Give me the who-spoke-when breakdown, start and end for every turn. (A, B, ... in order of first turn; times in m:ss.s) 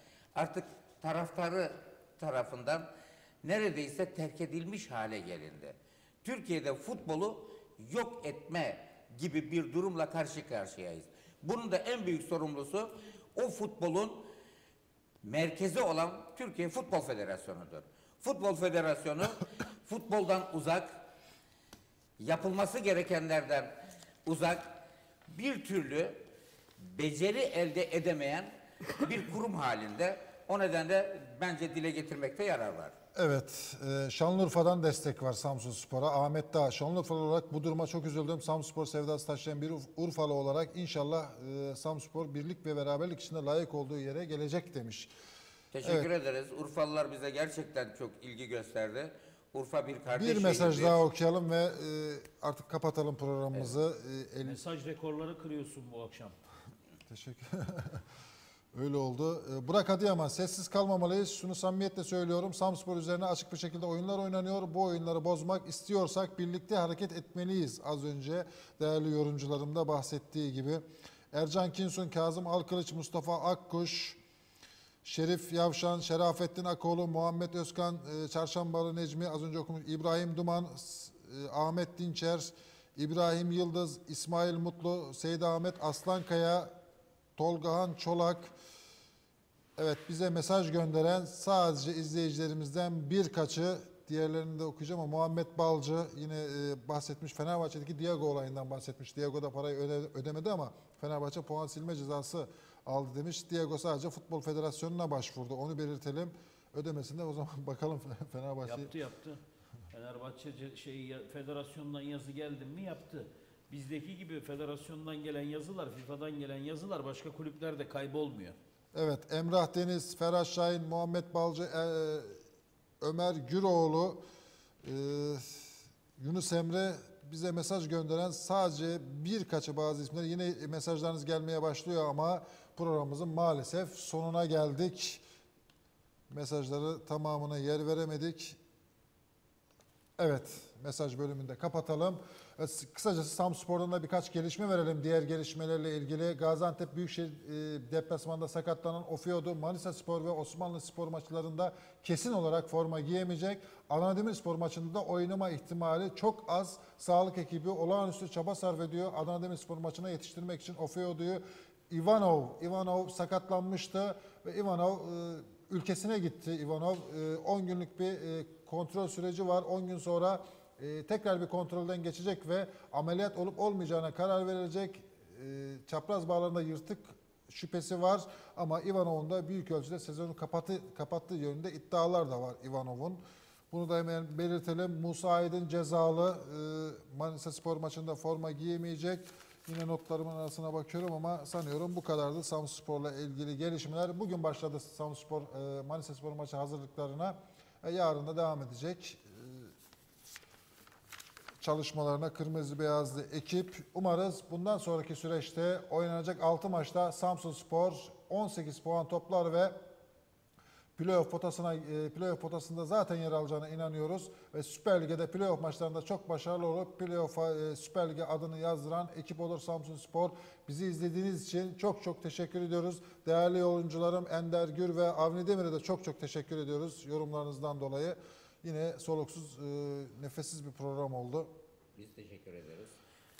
0:00.3-0:02.9 A
0:03.4-0:14.3 A
0:15.2-0:21.0 A
0:22.2-0:23.7 A
0:24.2-0:24.8 A
0:25.3-0:26.2 A
0:26.8-0:32.9 A
0:33.1-0:45.1 B
0:45.7-0:51.0 A
0:50.1-0:54.6 B
0:54.4-0:56.4 C
0:57.1-0:58.0 B
0:58.7-1:14.2 B
1:15.0-1:26.7 B
1:27.4-1:28.5 B
1:29.8-1:48.9 B
1:48.6-1:58.6 C
1:58.9-2:02.4 B
2:03.0-2:04.2 B
2:04.8-2:15.2 B
2:16.3-2:18.6 B
2:20.2-3:19.7 B
3:21.6-3:29.8 B
3:31.0-3:51.5 B
3:52.0-3:52.9 A